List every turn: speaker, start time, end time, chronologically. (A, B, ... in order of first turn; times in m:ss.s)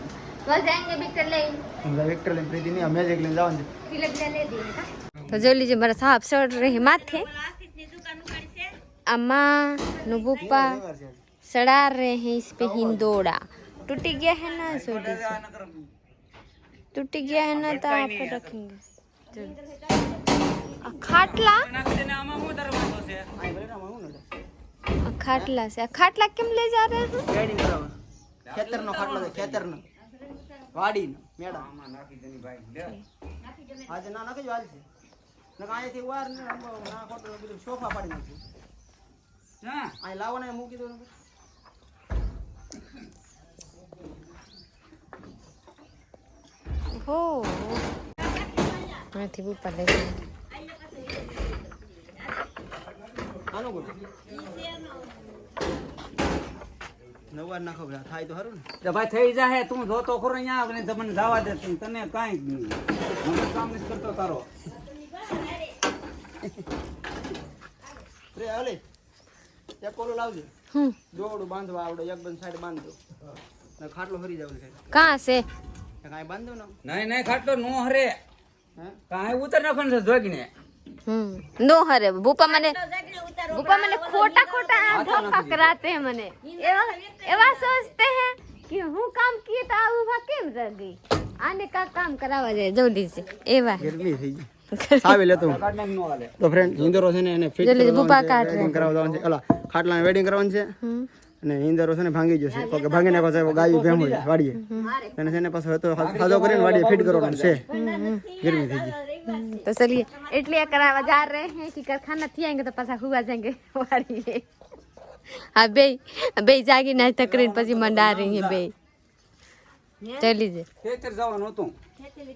0:00.4-0:01.6 A
0:01.8-0:03.7 B
0:03.9-0:07.3 A
0:09.1-0:10.8 A
0:10.4-0:11.2 B
0:11.4-0:15.4 A
0:12.6-0:13.0 B
0:14.7-0:15.9 C
0:16.9-0:18.8 A
0:17.3-0:18.6 C
0:20.8-0:21.7 A
0:21.0-0:23.3 C
0:23.4-0:24.2 B
0:25.0-0:27.3 A
0:27.3-0:28.0 B
0:28.4-0:29.6 C
0:28.5-0:29.8 B
0:30.7-0:31.7 B
0:31.5-0:33.0 C
0:33.8-0:34.8 B
0:35.6-0:38.4 B
0:39.6-0:39.9 C
0:40.0-0:41.1 B
0:46.9-0:47.8 A
0:49.1-0:50.2 A
0:53.5-0:54.0 B
0:57.3-0:58.7 B
0:58.8-1:04.5 C
1:08.3-1:08.8 B
1:09.8-1:10.5 B
1:11.1-1:13.0 B
1:13.8-1:14.8 B
1:14.9-1:15.5 A
1:16.0-1:16.8 B
1:16.8-1:18.2 C
1:19.1-1:20.5 C
1:21.1-1:22.8 A
1:23.5-1:33.9 A
1:24.9-1:25.7 C
1:33.8-1:34.5 B
1:34.7-1:35.2 A
1:35.0-1:35.6 B
1:35.3-1:37.0 C
1:36.4-1:40.7 B
1:37.6-1:38.9 A
1:38.5-1:39.2 C
1:40.8-1:41.1 A
1:41.4-1:44.6 B
1:43.4-1:44.3 C
1:44.6-1:45.0 A
1:45.2-1:47.6 B
1:46.0-1:47.6 C
1:47.7-1:48.3 A
1:48.3-1:49.0 B
1:49.2-1:54.4 A
1:55.3-1:58.7 A
1:57.0-1:58.6 C
2:00.2-2:00.7 A
2:00.8-2:01.8 C